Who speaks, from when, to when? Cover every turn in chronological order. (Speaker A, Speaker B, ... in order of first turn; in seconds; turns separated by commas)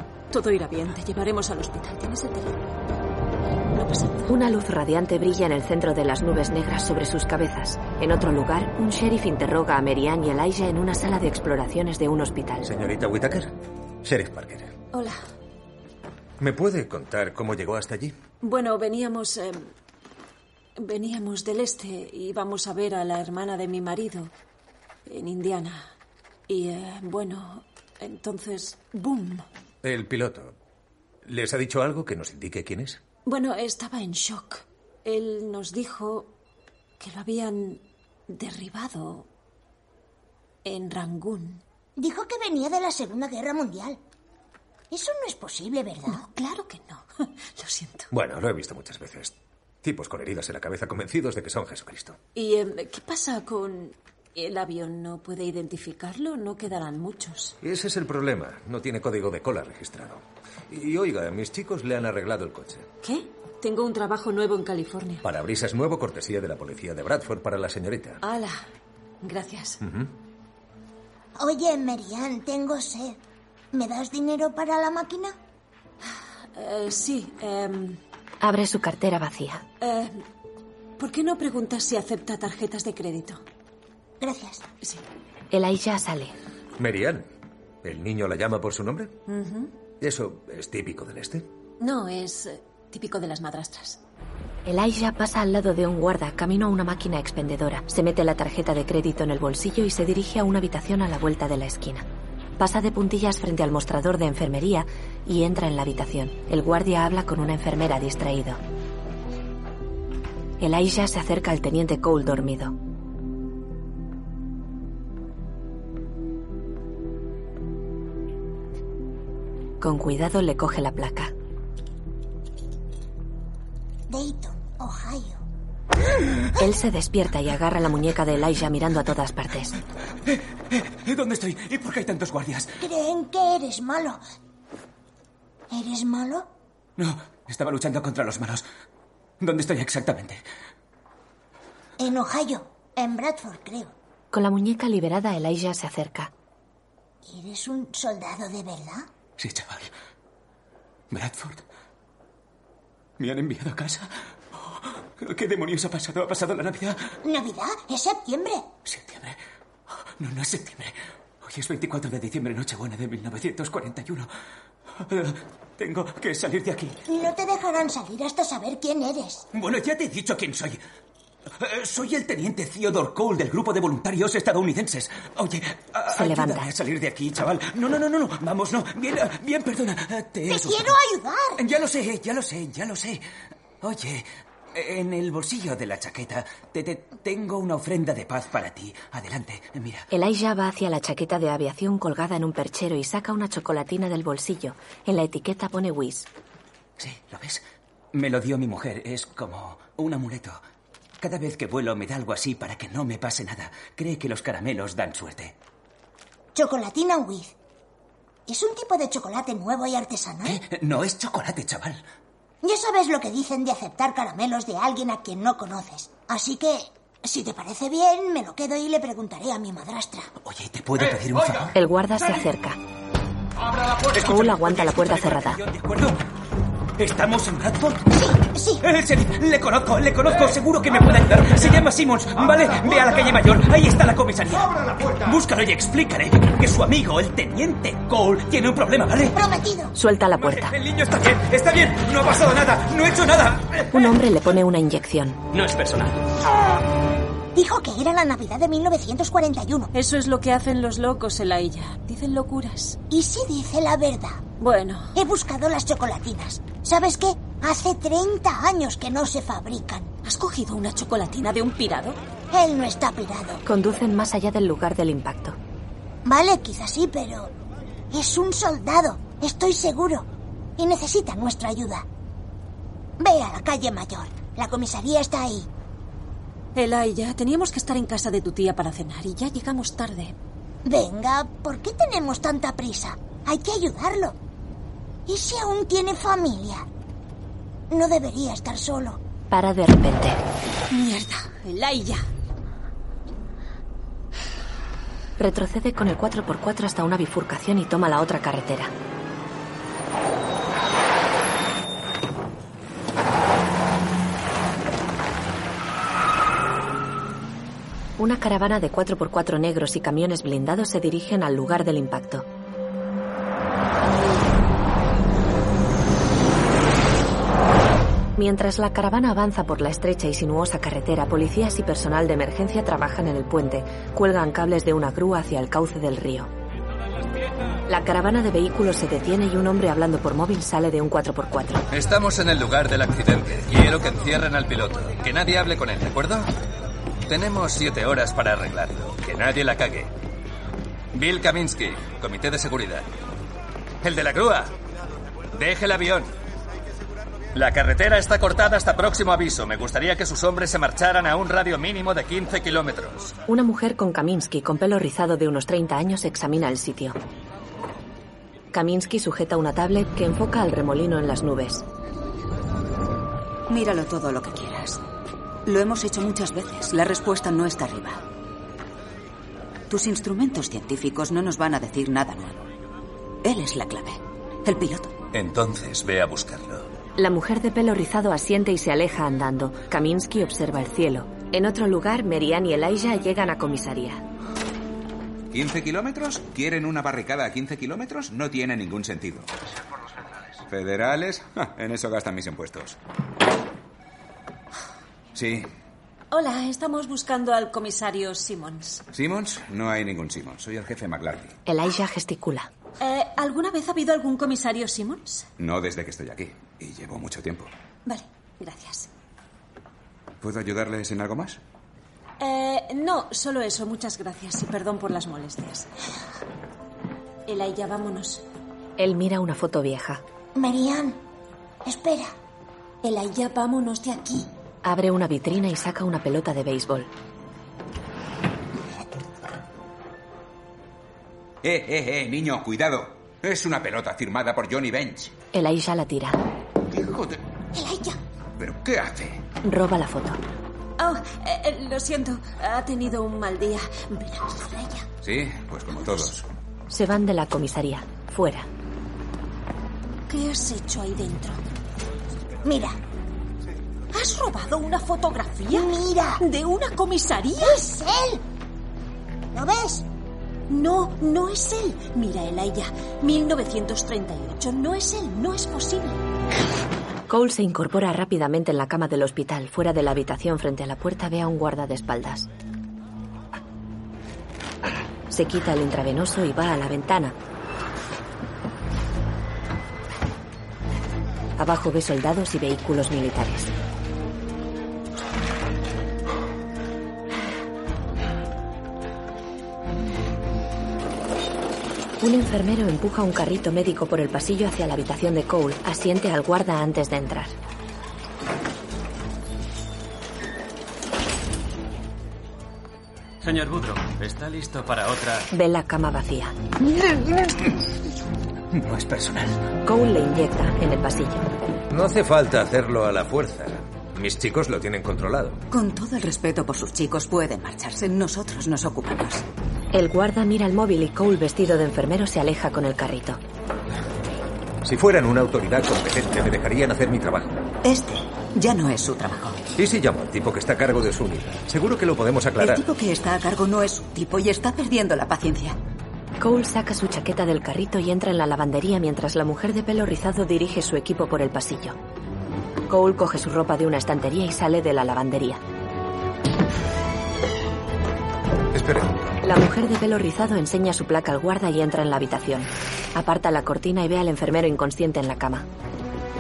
Speaker A: 0.3-2.7, Speaker A: 3.7-4.4, Speaker B: 4.3-12.7, Speaker C: 12.6-13.5, Speaker C: 14.0-14.7, Speaker A: 14.9-15.2, Speaker C: 16.4-18.2, Speaker A: 18.4-19.7, Speaker A: 20.8-24.3, Speaker A: 25.1-25.9, Speaker A: 26.5-29.4, Speaker C: 29.8-30.6, Speaker C: 31.2-33.0, Speaker A: 33.3-36.3, Speaker A: 37.0-39.3, Speaker A: 40.6-41.6, Speaker D: 42.0-44.0, Speaker D: 44.9-46.2, Speaker A: 46.1-48.1, Speaker C: 48.1-52.2, Speaker A: 52.4-57.6, Speaker C: 57.6-62.9, Speaker A: 63.0-65.2, Speaker C: 65.2-68.2, Speaker A: 68.2-68.6, Speaker A: 69.2-69.8, Speaker C: 69.8-70.1, Speaker D: 71.4-73.2, Speaker D: 73.7-75.4, Speaker A: 76.2-78.0, Speaker B: 78.4-79.6, Speaker A: 79.8-80.2, Speaker A: 81.0-83.4, Speaker D: 84.2-84.6, Speaker B: 85.5-86.3, Speaker C: 86.8-87.3, Speaker C: 87.8-89.1, Speaker A: 89.3-89.7, Speaker C: 90.0-91.5, Speaker A: 91.8-94.0, Speaker B: 94.7-102.1, Speaker B: 102.6-108.6, Speaker B: 110.6-112.7, Speaker B: 119.8-121.3, Speaker D: 124.1-125.4, Speaker B: 126.6-129.8, Speaker E: 130.3-132.8, Speaker D: 132.8-134.2, Speaker D: 135.7-136.5, Speaker E: 137.0-138.7, Speaker E: 139.4-140.4, Speaker D: 142.0-143.9, Speaker B: 144.3-146.3, Speaker D: 147.2-149.1, Speaker E: 149.4-149.9, Speaker E: 151.1-151.6, Speaker E: 153.2-157.1, Speaker D: 157.2-158.7, Speaker E: 158.8-159.4, Speaker E: 160.1-164.3, Speaker E: 164.9-167.0, Speaker D: 167.1-169.5, Speaker E: 169.5-170.8, Speaker E: 171.5-181.0, Speaker B: 176.1-176.7, Speaker D: 180.5-181.6, Speaker E: 181.6-183.2, Speaker E: 183.8-190.1, Speaker B: 190.1-196.3, Speaker E: 197.0-200.6, Speaker E: 201.2-205.6, Speaker D: 206.6-207.5, Speaker D: 208.5-210.6, Speaker E: 210.4-212.0, Speaker D: 212.6-220.3, Speaker E: 220.4-221.8, Speaker B: 221.7-222.8, Speaker E: 223.7-226.2, Speaker B: 224.2-225.6, Speaker E: 227.0-228.1, Speaker D: 228.2-228.8, Speaker E: 228.8-239.4, Speaker D: 239.3-240.0, Speaker B: 239.9-240.8, Speaker E: 240.3-244.1, Speaker B: 243.9-245.4, Speaker E: 245.5-246.3, Speaker D: 247.6-249.9, Speaker A: 249.9-253.0, Speaker D: 253.1-254.4, Speaker A: 254.6-255.1, Speaker D: 255.2-260.1, Speaker A: 260.2-262.2, Speaker D: 262.5-263.6, Speaker B: 263.6-265.6, Speaker D: 266.2-267.5, Speaker D: 268.1-272.1, Speaker D: 273.2-275.7, Speaker A: 276.8-280.4, Speaker D: 280.9-284.4, Speaker D: 285.3-286.9, Speaker D: 287.9-289.2, Speaker B: 289.5-290.4, Speaker A: 290.9-292.2, Speaker B: 295.4-298.9, Speaker B: 308.2-312.5, Speaker B: 318.4-326.5, Speaker B: 327.9-331.8, Speaker F: 331.9-336.5, Speaker F: 337.3-340.1, Speaker F: 341.1-343.1, Speaker F: 344.0-344.7, Speaker F: 345.5-346.3, Speaker F: 347.5-353.4, Speaker B: 353.5-357.2, Speaker B: 358.7-361.8, Speaker G: 363.7-365.0, Speaker G: 365.6-368.2, Speaker G: 369.9-372.7, Speaker G: 373.4-375.2, Speaker F: 375.3-376.9, Speaker B: 377.2-384.2, Speaker H: 385.5-389.5, Speaker H: 390.7-393.0, Speaker H: 395.3-395.7, Speaker A: 396.3-399.1, Speaker H: 399.1-401.6, Speaker B: 401.7-402.7, Speaker A: 403.0-405.5, Speaker H: 405.6-407.7, Speaker A: 408.1-409.1, Speaker H: 410.4-411.6, Speaker A: 412.4-415.9, Speaker A: 417.5-418.4, Speaker B: 419.0-420.2, Speaker D: 420.6-421.2, Speaker D: 421.9-422.3, Speaker A: 423.0-424.5, Speaker B: 424.8-427.1, Speaker H: 431.6-435.3, Speaker B: 435.5-436.4, Speaker H: 436.9-437.4, Speaker D: 437.7-438.2, Speaker H: 438.6-439.4, Speaker B: 439.6-440.4, Speaker A: 441.0-445.1, Speaker H: 445.2-446.5, Speaker B: 446.9-448.7, Speaker A: 450.3-451.6, Speaker D: 452.6-453.0, Speaker A: 454.1-457.8, Speaker D: 455.7-456.4, Speaker D: 457.6-458.4, Speaker D: 459.5-460.1, Speaker A: 460.7-466.2, Speaker B: 467.3-472.5, Speaker B: 475.3-477.4, Speaker B: 481.6-483.7, Speaker B: 492.2-497.6, Speaker F: 503.4-505.4, Speaker B: 505.5-506.6, Speaker E: 508.7-509.7, Speaker B: 509.9-511.5, Speaker C: 511.9-515.6, Speaker G: 515.7-519.5, Speaker B: 519.9-523.4, Speaker C: 524.8-527.6, Speaker G: 527.8-529.7, Speaker C: 529.8-532.9, Speaker G: 532.6-535.8, Speaker B: 536.4-542.0, Speaker B: 542.9-545.6, Speaker C: 548.7-549.2, Speaker B: 549.4-555.7